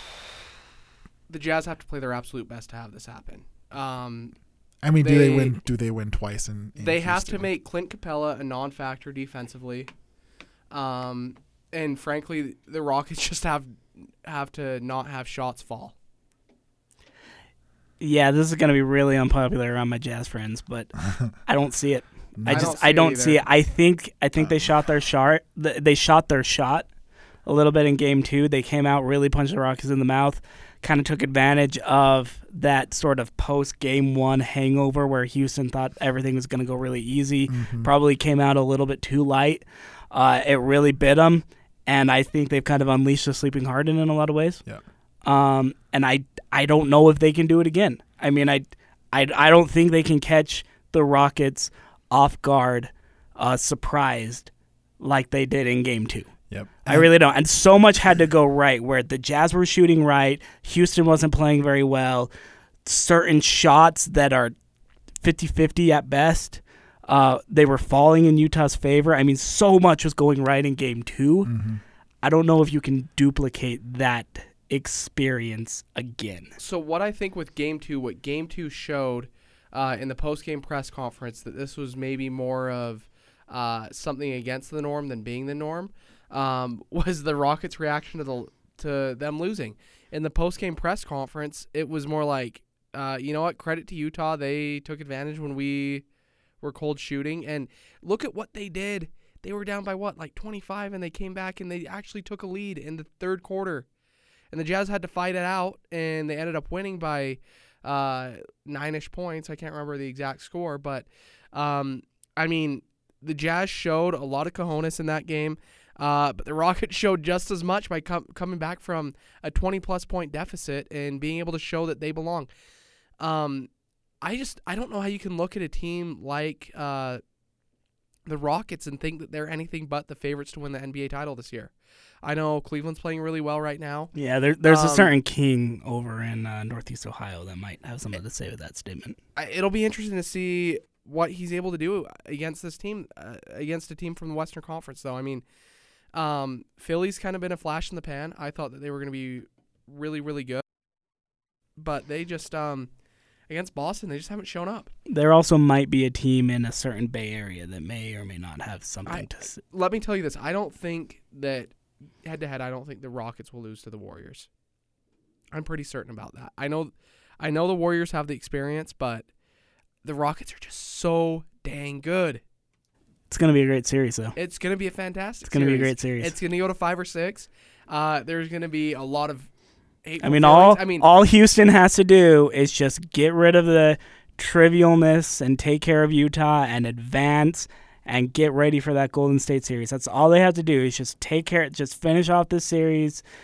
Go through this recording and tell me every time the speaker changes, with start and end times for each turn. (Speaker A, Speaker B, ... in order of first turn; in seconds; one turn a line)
Speaker A: 1.3-4.3
Speaker B: 4.8-7.5
Speaker A: 5.0-5.6
Speaker A: 6.8-9.9
Speaker A: 10.7-15.9
Speaker C: 18.0-20.9
Speaker C: 21.4-26.9
Speaker B: 22.4-22.8
Speaker A: 22.5-23.4
Speaker B: 24.4-24.7
Speaker C: 27.4-44.6
Speaker B: 37.5-37.9
Speaker C: 45.2-56.3
Speaker B: 56.5-57.1
Speaker C: 56.9-62.3
Speaker C: 62.9-64.5
Speaker C: 65.2-71.5
Speaker B: 71.5-71.8
Speaker C: 72.2-76.5
Speaker A: 76.6-96.0
Speaker A: 96.6-103.9
Speaker A: 104.5-122.5
Speaker A: 123.2-123.7
Speaker A: 124.2-127.2
Speaker A: 128.2-131.7
Speaker A: 132.2-134.1
Speaker C: 134.1-139.2
Speaker A: 134.6-135.1
Speaker A: 139.4-145.4
Speaker A: 146.1-150.6
Speaker A: 151.8-152.9
Speaker A: 153.5-154.9
Speaker C: 155.1-159.6
Speaker A: 159.1-161.7
Speaker A: 162.2-164.5
Speaker A: 165.5-169.3
Speaker A: 170.0-172.4
Speaker C: 173.3-174.4
Speaker A: 174.4-179.5
Speaker C: 175.4-176.3
Speaker A: 180.0-181.1
Speaker C: 180.2-193.2